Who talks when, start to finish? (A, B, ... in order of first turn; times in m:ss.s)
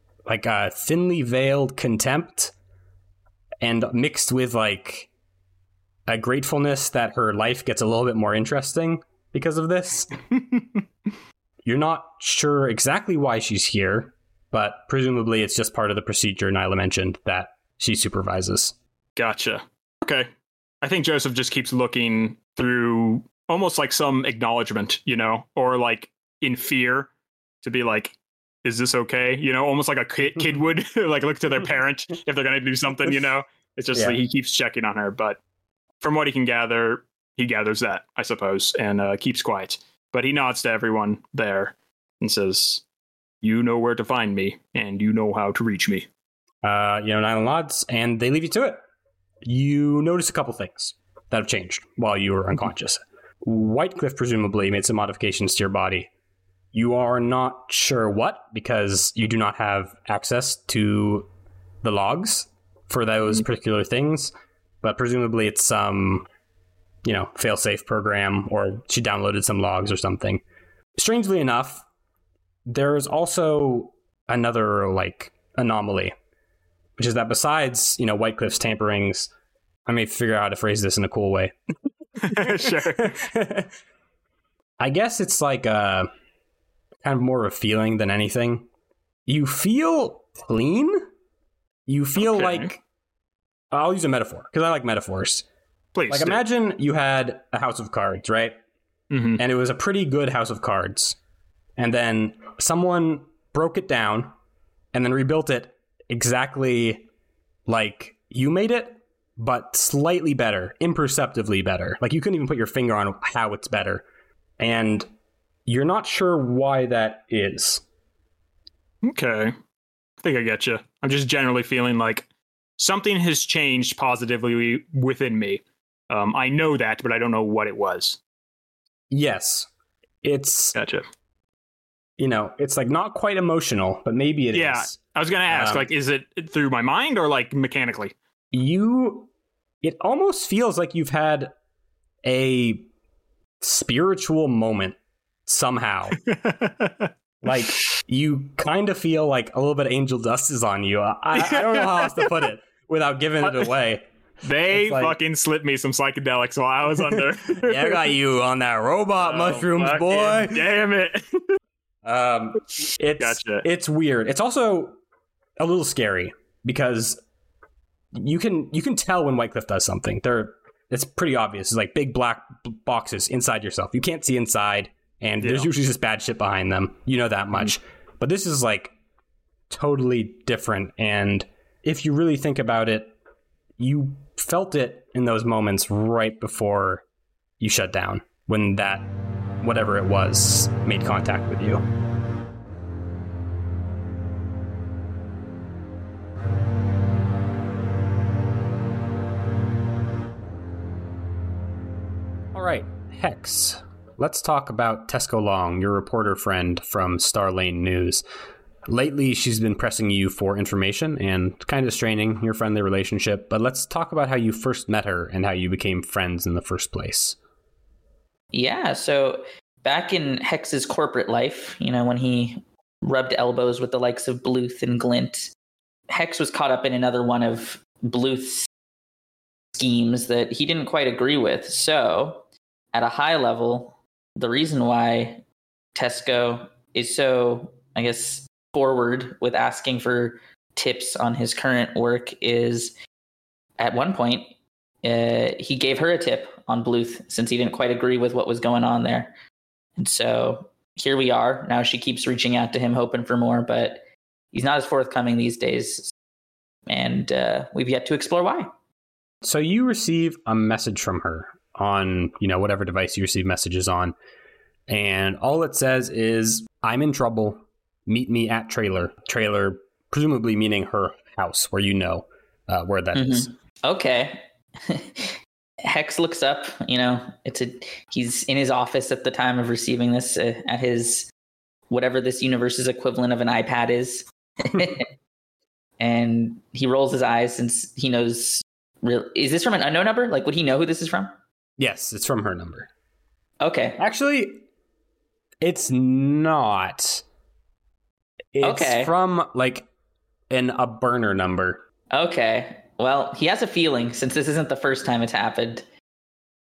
0:00.2-0:02.5 A
0:03.6-0:05.1 A
0:06.1-0:10.2 A
0:11.6-0:18.7 A
0:19.2-0:20.3 B
0:20.8-0:27.1 B
0:27.6-0:35.4 B
0:36.0-0:42.8 B
0:43.4-0:46.1 B
0:46.6-0:48.8 A
0:49.4-0:56.1 A
0:56.7-1:01.3 A
1:01.8-1:06.2 A
1:07.0-1:10.4 A
1:11.0-1:11.8 A
1:12.7-1:16.1 A
1:17.0-1:19.3 A
1:19.8-1:21.5 A
1:22.2-1:23.2 B
1:22.4-1:23.7 A
1:24.8-1:26.1 A
1:27.0-1:28.7 A
1:29.3-1:31.0 A
1:31.9-1:32.8 A
1:32.2-1:32.7 B
1:33.7-1:35.4 A
1:35.9-1:36.4 B
1:36.1-1:38.6 A
1:39.1-1:39.4 B
1:39.4-1:41.2 A
1:41.8-1:44.3 A
1:44.9-1:47.0 A
1:47.7-1:54.0 A
1:54.6-1:55.1 A
1:55.6-1:57.8 A
1:59.0-1:59.5 B
2:00.2-2:02.3 B
2:02.8-2:08.2 B
2:09.1-2:09.7 A
2:10.2-2:10.7 A
2:10.7-2:11.0 B
2:12.2-2:15.0 A
2:14.5-2:18.1 B
2:15.5-2:15.9 A
2:18.5-2:19.3 A
2:19.8-2:21.5 A
2:22.2-2:22.9 A
2:23.6-2:26.2 A
2:26.2-2:27.1 B
2:27.4-2:34.1 A
2:31.4-2:32.3 B
2:34.4-2:38.0 B
2:34.7-2:35.2 A
2:37.1-2:40.7 A
2:39.2-2:41.5 B
2:42.0-2:45.0 A
2:43.2-2:43.6 B
2:45.6-2:47.2 A
2:48.1-2:58.9 A
2:55.4-2:55.7 B
2:59.7-3:03.1 A
3:03.8-3:07.0 A
3:07.6-3:09.1 A
3:09.6-3:11.8 A
3:22.5-3:28.2 A
3:28.9-3:37.4 A
3:38.5-3:45.5 C
3:46.1-3:48.7 C
3:49.7-3:55.4 C
3:55.9-4:02.9 C
4:03.8-4:09.3 C
4:10.0-4:16.1 C
4:16.9-4:18.7 C
4:19.4-4:24.1 A
4:24.9-4:33.5 A
4:33.1-4:41.3 C
4:41.9-4:45.1 C
4:46.0-4:51.4 C
4:51.8-4:52.9 A
4:53.6-4:54.0 C
4:54.0-4:54.6 A
4:55.6-4:57.2 A
4:58.5-4:59.9 A
4:58.6-4:59.1 C
5:00.5-5:01.8 A
5:02.1-5:05.8 C